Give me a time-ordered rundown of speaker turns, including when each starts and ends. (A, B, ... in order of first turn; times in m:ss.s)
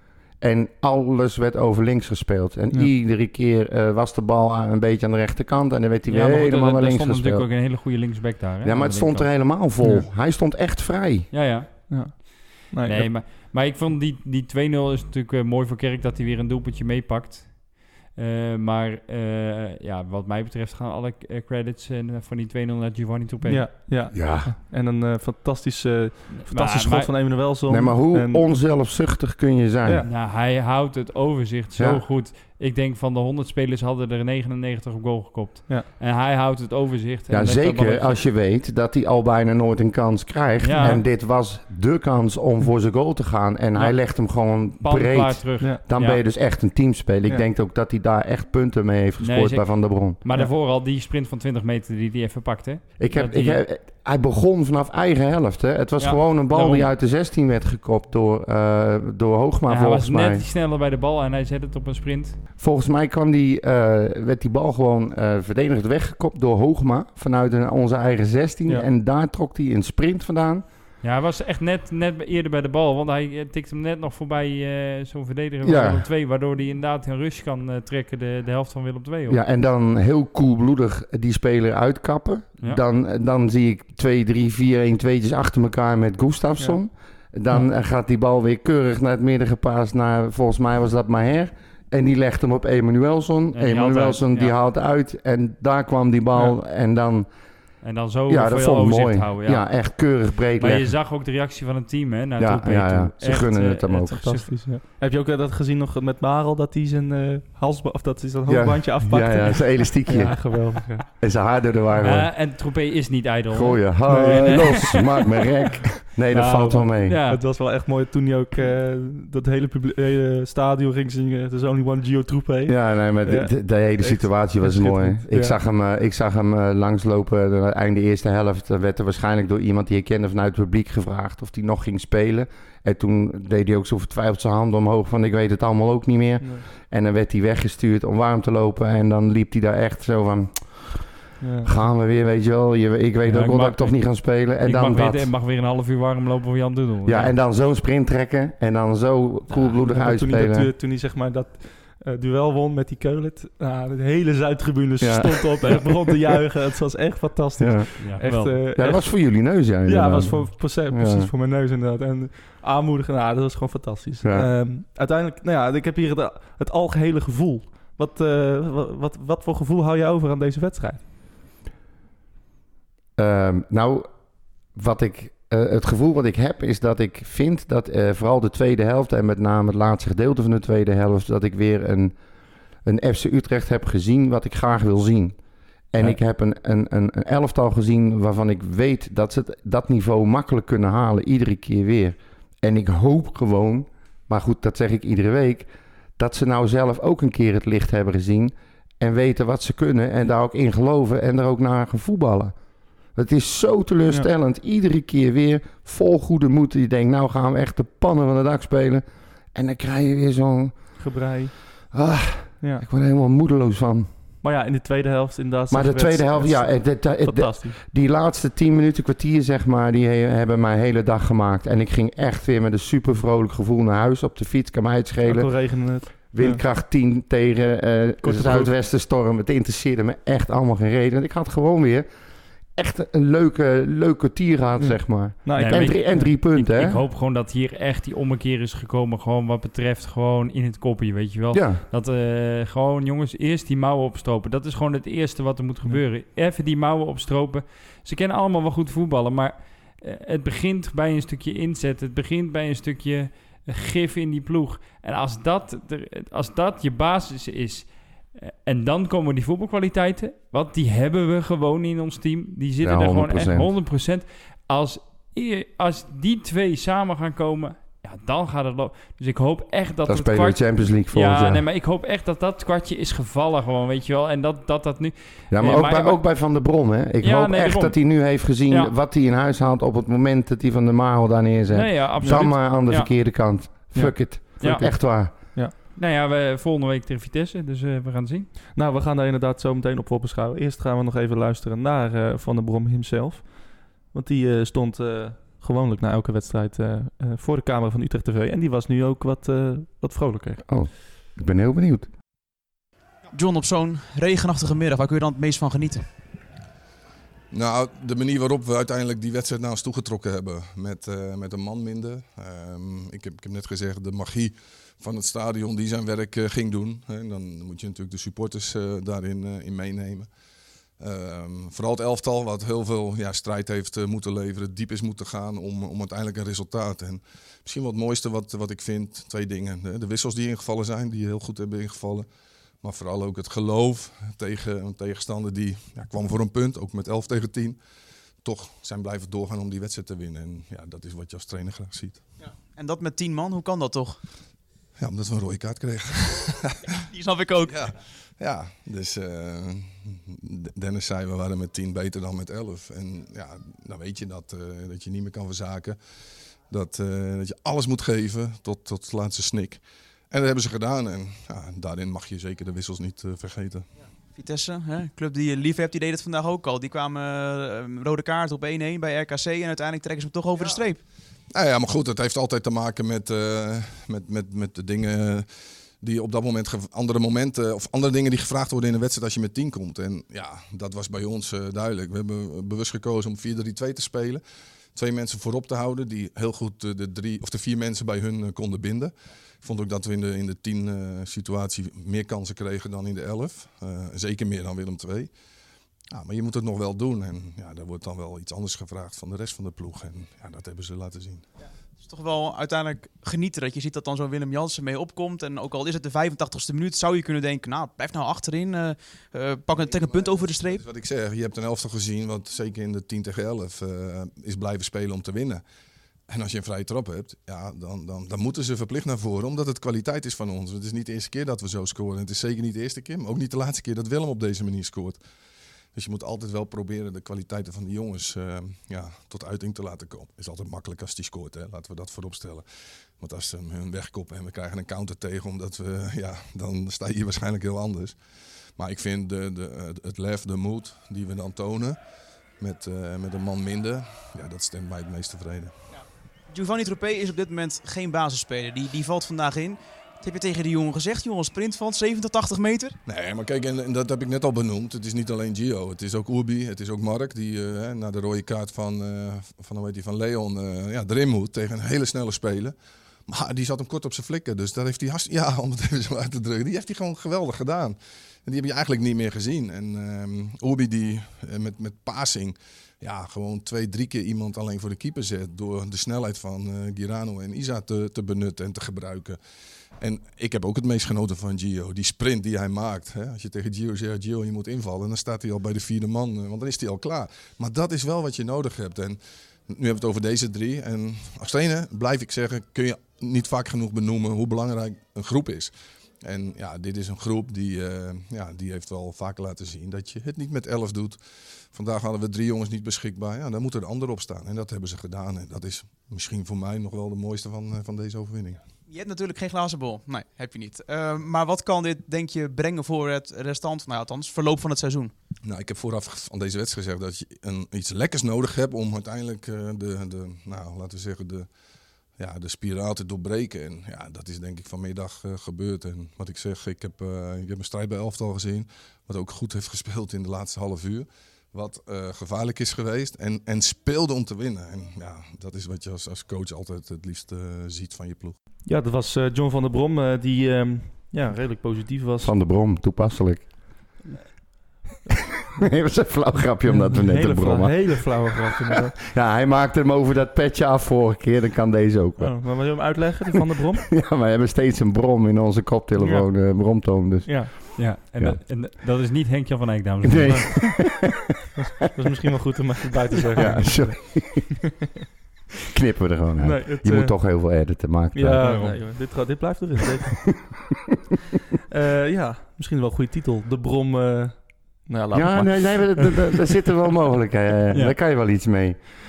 0:00.4-0:07.5 A
0:06.1-0:09.3 B
0:08.6-0:11.3 A
0:09.8-0:10.1 C
0:11.3-0:23.7 B
0:11.9-0:13.1 C
0:23.4-0:28.5 C
0:24.1-0:24.5 A
0:26.4-0:27.1 B
0:27.7-0:30.1 A
0:30.0-0:38.3 B
0:31.8-0:32.0 A
0:37.3-0:50.2 A
0:40.6-0:41.0 B
0:40.8-0:41.0 C
0:43.8-0:46.2 B
0:49.2-0:53.6 B
0:53.0-1:00.4 A
0:56.0-0:56.9 B
0:59.7-1:02.4 B
1:02.6-1:10.6 A
1:11.0-1:19.4 B
1:15.6-1:16.1 A
1:19.3-1:37.3 A
1:33.5-1:34.5 B
1:37.8-1:40.0 B
1:38.3-1:40.9 A
1:40.6-1:44.6 B
1:42.4-1:44.3 A
1:44.2-1:51.1 C
1:48.5-1:52.3 A
1:52.0-1:55.2 B
1:53.5-1:57.2 A
1:54.1-1:55.0 C
1:56.3-2:05.6 C
1:56.3-1:57.4 B
2:02.7-2:25.3 A
2:16.4-2:16.7 C
2:21.4-2:21.7 C
2:23.2-2:27.4 B
2:27.0-2:30.7 A
2:29.5-2:51.0 C
2:35.0-2:35.8 A
2:37.6-2:41.3 A
2:38.0-2:38.6 B
2:44.2-2:44.5 A
2:53.2-3:02.2 A
3:02.8-3:05.4 A
3:05.9-3:31.0 A
3:31.0-3:31.9 C
3:31.9-3:34.1 A
3:32.6-3:32.9 C
3:34.4-3:37.8 C
3:35.7-3:52.1 A
3:45.2-3:46.6 C
3:48.2-3:48.7 C
3:52.7-3:57.0 A
3:54.8-3:56.3 C
3:55.6-4:38.9 B
4:01.5-4:01.8 A
4:22.8-4:23.7 A
4:30.1-4:31.6 A
4:35.5-4:45.3 A
4:41.7-4:43.1 B
4:42.2-4:42.5 C
4:43.9-4:45.7 C
4:44.6-4:48.5 B
4:48.8-5:00.8 C
5:00.7-5:02.1 A
5:03.3-5:06.2 D
5:07.5-5:20.4 E
5:20.9-5:37.8 E
5:38.4-5:42.3 E
5:42.5-5:44.3 D
5:45.0-5:47.0 E
5:47.1-5:47.9 D
5:47.6-6:03.9 E
6:04.3-6:11.1 D
6:11.5-6:35.4 E
6:36.0-6:41.5 E
6:42.0-6:50.8 D
6:49.8-6:55.6 E
6:56.3-7:05.3 E
7:05.9-7:25.8 E
7:25.9-7:33.0 D
7:33.0-8:28.7 E
8:28.8-8:35.2 D
8:35.4-8:58.4 E
8:58.6-9:02.4 C
9:02.2-9:04.0 A
9:05.6-9:08.2 A
9:06.6-9:09.0 C
9:09.1-9:13.1 A
9:12.2-9:13.9 C
9:13.9-9:18.4 A
9:16.0-9:17.5 C
9:17.8-9:21.2 B
9:20.0-9:21.1 A
9:21.6-9:24.5 C
9:23.4-9:24.5 A
9:25.7-9:28.8 A
9:26.4-9:30.5 C
9:28.4-9:28.8 B
9:31.7-9:36.2 C
9:35.1-9:38.9 A